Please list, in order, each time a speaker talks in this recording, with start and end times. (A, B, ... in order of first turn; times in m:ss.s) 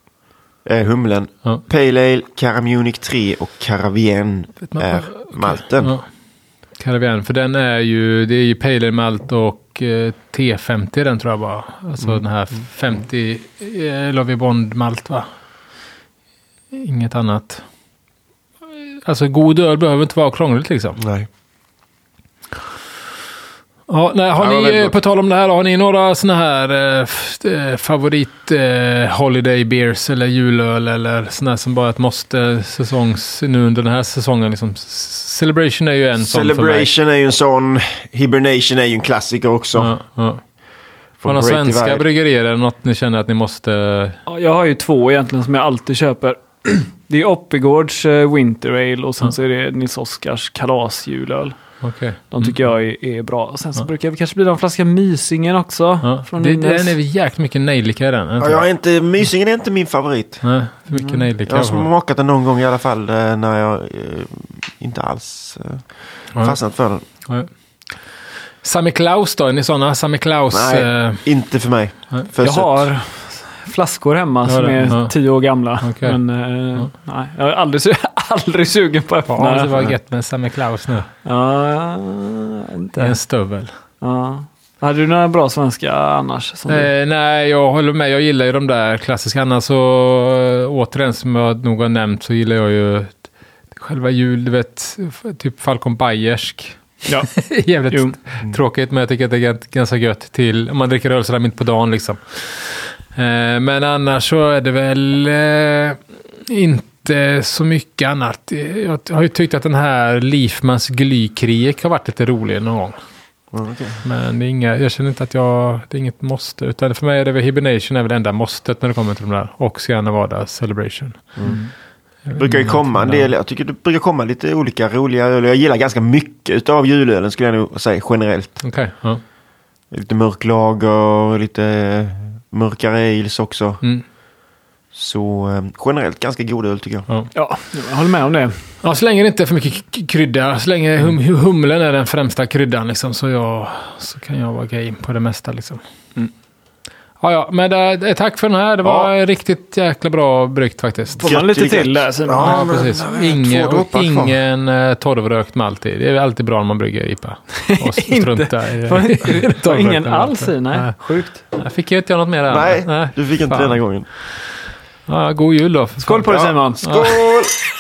0:00.6-0:06.0 A
0:04.7-0:06.0 B
0:06.8-0:15.2 B
0:16.7-0:17.6 B
0:19.0-0:21.0 B
0:21.0-0:21.3 A
0:23.9-0:36.9 B
0:24.4-0:25.0 A
0:36.2-0:40.0 A
0:39.8-0:40.4 B
0:41.2-0:42.0 A
0:41.2-0:44.2 B
0:44.3-0:51.6 C
0:51.8-0:52.6 B
0:52.3-0:57.0 C
0:56.0-0:58.6 B
0:58.4-1:00.4 A
1:00.4-1:01.9 B
1:00.9-1:01.2 C
1:01.5-1:07.0 A
1:08.6-1:11.2 B
1:10.5-1:12.9 A
1:12.4-1:20.0 C
1:14.5-1:15.1 B
1:15.8-1:16.2 B
1:19.3-1:21.1 B
1:21.2-1:23.2 C
1:23.0-1:23.7 B
1:24.0-1:26.9 C
1:26.7-1:33.2 B
1:33.7-1:53.0 B
1:37.0-1:37.3 C
1:37.9-1:38.2 C
1:53.5-1:54.0 A
1:54.0-2:01.5 B
2:01.4-2:01.7 C
2:02.3-2:03.3 B
2:02.4-2:08.6 A
2:08.6-2:09.2 B
2:09.9-2:13.8 A
2:14.9-2:17.1 A
2:17.3-2:18.6 C
2:18.8-2:25.8 B
2:27.2-2:31.3 B
2:28.8-2:29.1 A
2:31.2-2:32.7 C
2:31.2-2:34.4 A
2:32.4-2:41.0 B
2:37.7-2:41.5 C
2:41.5-2:43.8 B
2:42.5-2:44.1 A
2:45.1-2:47.5 B
2:46.0-2:47.1 C
2:46.3-2:47.6 A